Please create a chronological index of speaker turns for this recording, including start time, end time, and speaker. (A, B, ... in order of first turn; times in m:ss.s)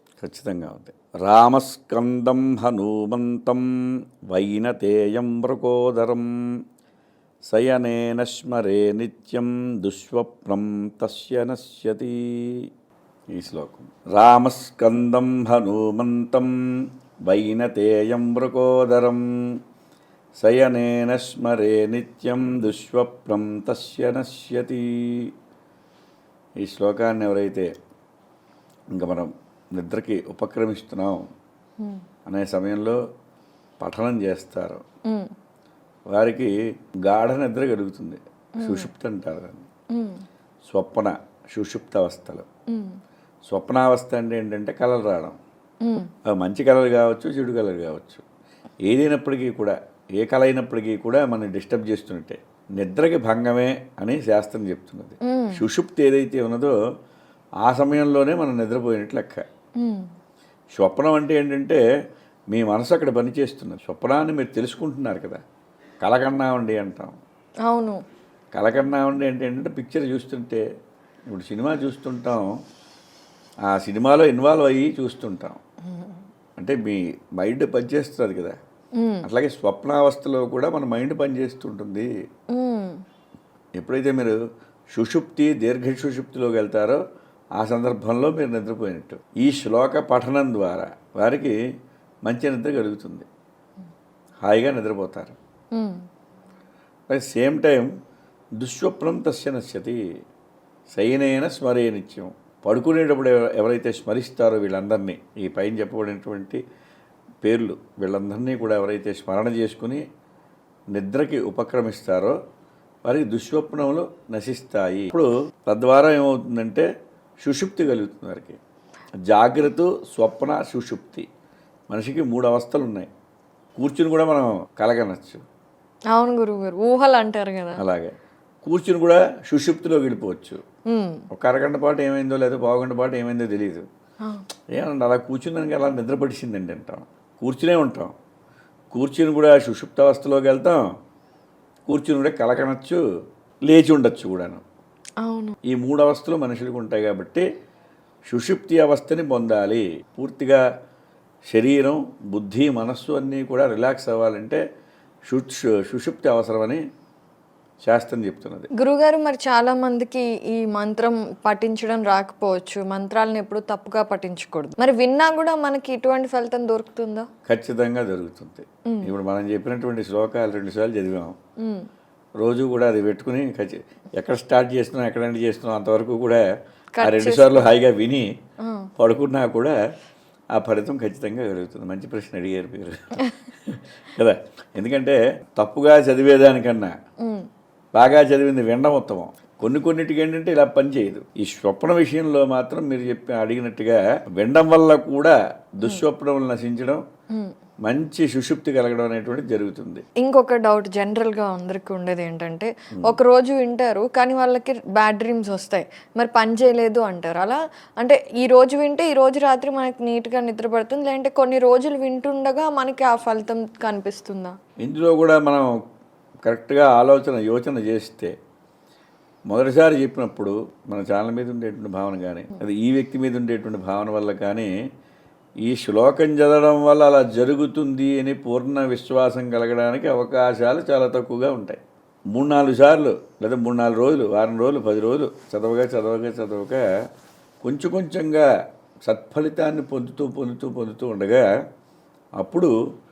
0:00.2-0:03.6 A
0:04.3-0:06.3 A
0:07.5-0:12.6 A
0:13.3-0:16.5 A
0:17.2-0:19.2 A
0:20.4-0:25.3 A
0:26.6-0:27.7 A
0:28.9-0:31.2 A
0:32.2-0:33.0 A
0:33.8-0:34.8 A
0:36.1-0:36.5 A
0:37.0-0:39.7 A
0:38.6-0:38.9 B
0:39.9-0:40.2 B
0:40.7-0:42.4 A
0:42.7-0:43.0 B
0:43.5-0:45.4 A
0:45.8-0:46.1 B
0:46.3-0:48.2 A
0:48.9-0:56.8 A
0:55.2-0:55.6 B
0:57.6-0:59.4 A
0:59.8-1:00.1 B
1:00.8-1:01.8 A
1:02.5-1:05.4 A
1:06.0-1:07.2 A
1:07.7-1:08.0 B
1:08.6-1:10.6 A
1:11.3-1:12.5 A
1:13.7-1:15.6 A
1:16.6-1:18.6 A
1:19.0-1:19.2 B
1:19.2-1:22.1 A
1:22.5-1:23.0 B
1:23.8-1:24.4 A
1:24.9-1:27.0 A
1:27.6-1:31.6 A
1:32.2-1:33.3 A
1:34.4-1:35.4 A
1:35.8-1:36.0 B
1:37.1-1:37.9 A
1:38.6-1:40.0 A
1:40.9-1:46.6 A
1:47.4-1:50.0 A
1:50.9-1:52.4 A
1:53.0-1:56.9 A
1:57.4-1:58.6 A
1:59.3-2:01.2 A
2:01.9-2:03.1 A
2:03.8-2:05.4 A
2:06.1-2:07.8 B
2:07.8-2:10.6 A
2:10.9-2:11.2 B
2:11.3-2:13.8 A
2:14.7-2:18.1 A
2:18.9-2:20.8 A
2:21.9-2:23.0 A
2:23.6-2:24.6 A
2:25.2-2:25.6 B
2:25.6-2:27.4 A
2:28.3-2:30.6 A
2:31.5-2:34.6 A
2:35.3-2:36.8 A
2:37.8-2:38.7 A
2:38.8-2:47.3 B
2:47.4-2:51.4 A
2:51.6-2:51.8 B
2:52.4-2:56.4 A
2:57.0-2:57.7 B
2:57.0-2:58.3 A
2:58.6-2:58.9 B
2:59.0-2:59.8 A
3:00.5-3:07.0 A
3:07.2-3:07.5 B
3:07.9-3:17.0 A
3:17.8-3:20.0 A
3:20.2-3:34.6 B
3:22.9-3:23.2 A
3:34.8-3:35.7 A
3:36.5-3:38.3 A
3:39.5-3:44.7 A
3:45.6-3:51.8 A
3:52.3-3:56.8 A
3:57.6-3:58.5 A
3:59.0-4:01.5 A
4:02.4-4:02.7 A